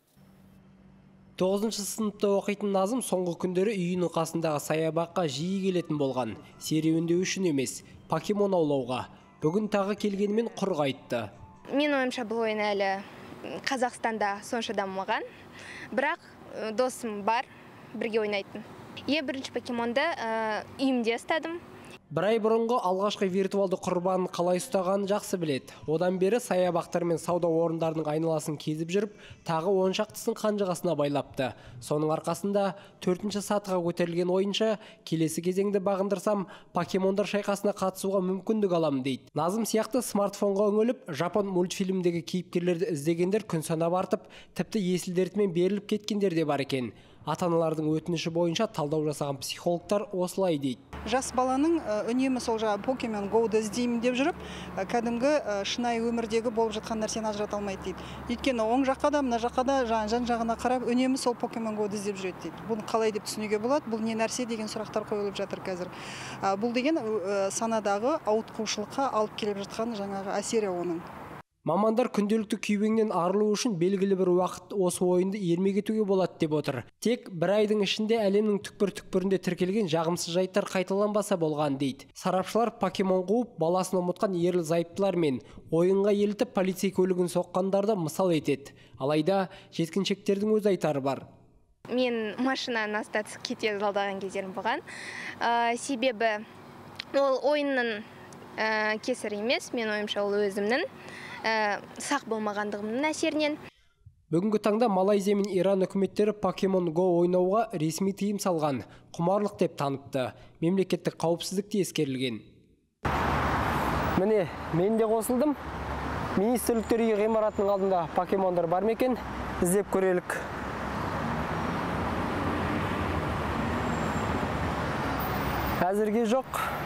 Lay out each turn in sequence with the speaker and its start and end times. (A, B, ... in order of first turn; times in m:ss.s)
0:01.4-0:11.3 A
0:11.7-0:15.2 B
0:15.9-0:21.6 B
0:22.1-0:50.8 A
0:51.1-1:05.9 C
1:06.4-1:11.0 C
1:11.6-1:31.2 A
1:31.9-1:34.8 B
1:35.4-1:36.4 B
1:37.1-1:38.1 B
1:38.6-1:40.9 B
1:41.4-1:43.6 B
1:44.3-1:52.4 A
1:54.2-1:55.6 A
1:56.4-2:00.4 A
2:05.8-2:06.7 A